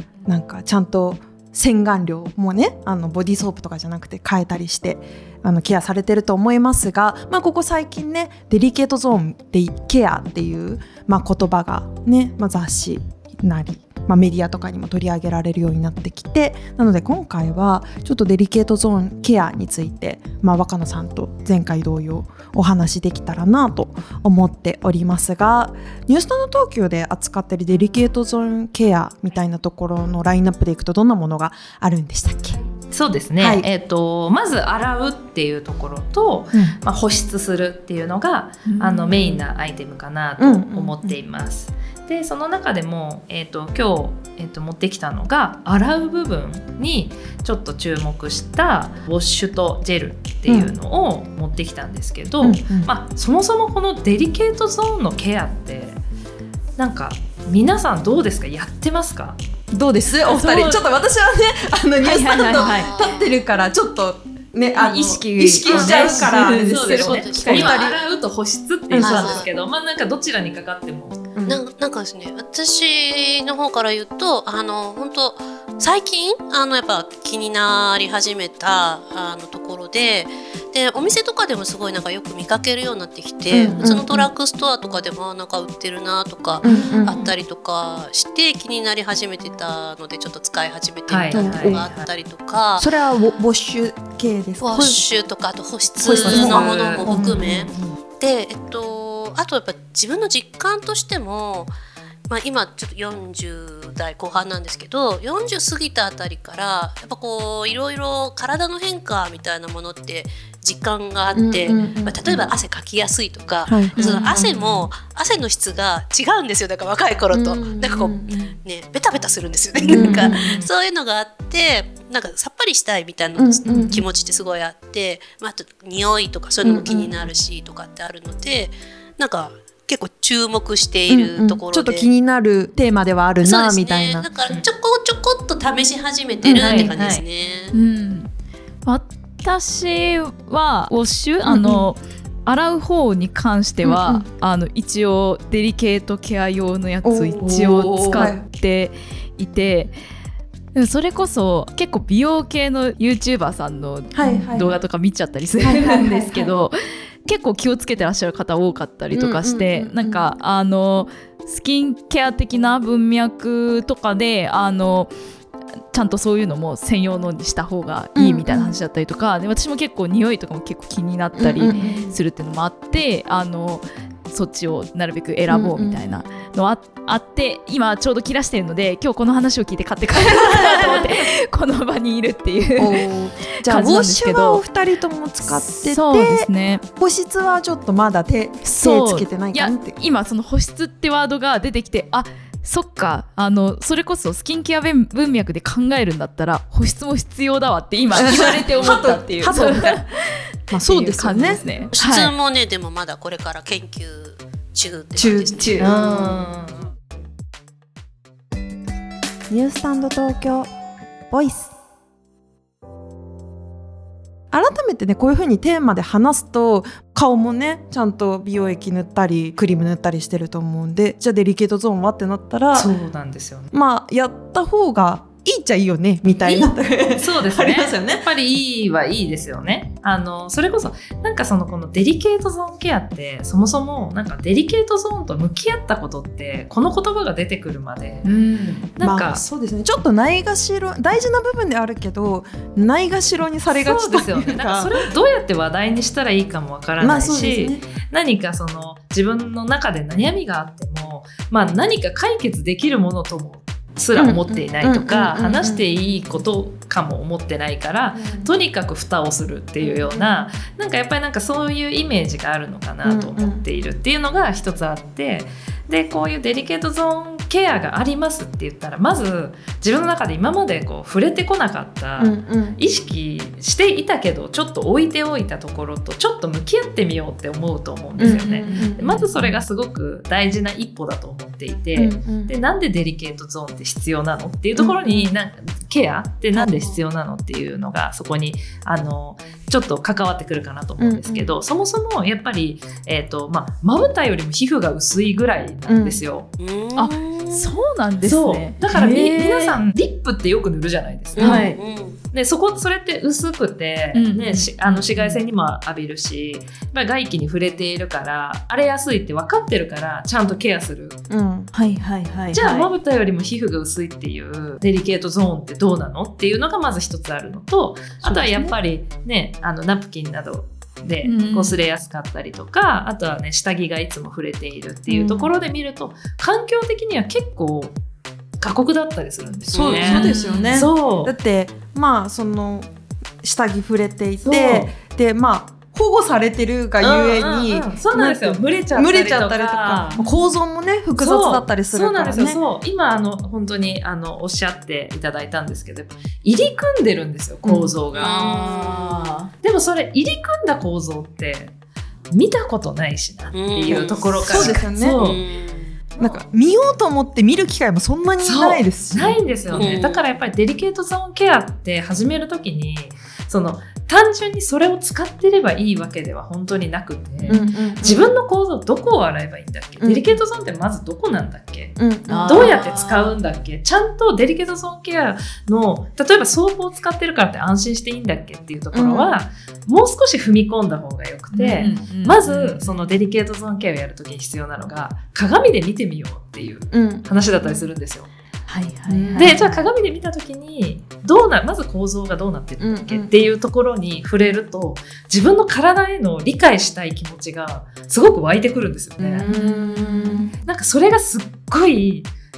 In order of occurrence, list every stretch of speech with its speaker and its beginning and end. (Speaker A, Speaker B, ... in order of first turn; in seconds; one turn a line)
Speaker A: 0.2-32.6
Speaker B: 32.9-56.0
Speaker A: 33.4-33.7
Speaker C: 38.6-39.3
Speaker A: 40.4-41.1
Speaker A: 50.5-50.7
Speaker A: 52.4-52.9
Speaker B: 56.8-59.4
Speaker A: 59.7-68.0
Speaker B: 60.2-60.9
Speaker C: 62.0-62.9
Speaker D: 62.6-63.1
Speaker C: 64.8-67.8
Speaker B: 65.7-71.2
Speaker D: 67.0-68.0
Speaker A: 68.9-69.5
Speaker D: 69.0-69.5
Speaker A: 71.3-71.6
Speaker D: 71.5-92.9
Speaker A: 83.5-84.3
Speaker A: 86.6-87.1
Speaker B: 86.6-87.3
Speaker B: 91.1-92.1
Speaker A: 91.3-91.9
Speaker A: 92.8-95.0
Speaker D: 94.6-101.7
Speaker B: 96.0-97.5
Speaker A: 96.0-97.9
Speaker D: 102.3-132.1
Speaker A: 111.3-112.5
Speaker A: 113.7-114.6
Speaker C: 114.0-114.3
Speaker B: 114.3-114.9
Speaker A: 117.3-118.5
Speaker B: 119.8-120.7
Speaker A: 119.8-120.4
Speaker A: 123.3-124.0
Speaker C: 123.7-123.9
Speaker A: 126.6-127.2
Speaker A: 131.1-134.3
Speaker D: 133.4-137.7
Speaker A: 136.4-136.9
Speaker B: 136.5-137.2
Speaker C: 137.7-138.3
Speaker C: 138.8-149.9
Speaker A: 141.4-141.9
Speaker A: 143.8-144.2
Speaker A: 147.0-148.4
Speaker C: 150.7-165.1
Speaker A: 154.1-154.8
Speaker A: 155.6-156.5
Speaker A: 159.1-160.3
Speaker C: 165.9-184.6
Speaker A: 168.1-168.8
Speaker A: 171.3-172.2
Speaker A: 175.5-176.0
Speaker A: 182.8-190.0
Speaker C: 185.4-186.8
Speaker C: 188.6-202.3
Speaker A: 198.1-200.0
Speaker A: 200.7-201.6
Speaker D: 201.9-206.4
Speaker A: 205.2-206.0
Speaker B: 205.8-206.9
Speaker A: 209.5-210.7
Speaker A: 211.3-211.7
Speaker A: 214.5-222.9
Speaker B: 222.7-223.7
Speaker A: 223.7-228.2
Speaker B: 226.4-238.2
Speaker C: 238.2-238.9
Speaker B: 239.0-239.4
Speaker A: 239.0-245.0
Speaker B: 243.7-296.5
Speaker A: 247.0-247.9
Speaker A: 254.2-255.8
Speaker A: 258.1-258.5
Speaker A: 259.8-260.4
Speaker A: 263.0-263.6
Speaker A: 272.2-272.8
Speaker A: 278.2-279.2
Speaker C: 278.5-279.3
Speaker A: 281.9-282.5
Speaker A: 284.8-285.3
Speaker A: 286.5-287.0
Speaker A: 291.0-291.5
Speaker A: 295.9-296.2
Speaker D: 296.6-297.7
Speaker C: 296.9-299.8
Speaker B: 298.2-301.7
Speaker D: 301.4-302.2
Speaker C: 301.4-301.8
Speaker B: 302.3-311.2
Speaker C: 304.1-305.4
Speaker A: 311.3-311.7
Speaker C: 311.7-312.9
Speaker B: 312.5-328.0
Speaker A: 318.2-318.7
Speaker C: 321.2-321.8
Speaker A: 325.1-325.5
Speaker B: 328.6-331.3
Speaker A: 329.7-332.9
Speaker D: 329.7-330.1
Speaker C: 330.0-330.8
Speaker A: 333.4-342.6
Speaker B: 334.4-334.9
Speaker B: 337.0-340.2
Speaker B: 341.2-348.3
Speaker A: 347.6-347.9
Speaker D: 348.1-349.3
Speaker C: 348.2-349.5
Speaker B: 349.6-351.7
Speaker B: 352.3-355.4
Speaker D: 353.5-356.0
Speaker A: 354.4-355.2
Speaker A: 356.2-360.0
Speaker B: 358.4-371.9
Speaker D: 359.7-360.2
Speaker C: 367.4-367.7
Speaker A: 367.5-368.3
Speaker A: 370.0-370.4
Speaker A: 372.0-372.7
Speaker C: 372.3-373.4
Speaker B: 372.4-388.3
Speaker A: 378.9-379.3
Speaker C: 381.5-383.1
Speaker A: 386.9-387.7
Speaker C: 388.7-389.7
Speaker A: 389.1-389.8
Speaker B: 389.4-399.5
Speaker A: 392.8-393.3
Speaker A: 399.2-400.5
Speaker C: 399.5-400.5
Speaker B: 400.6-402.3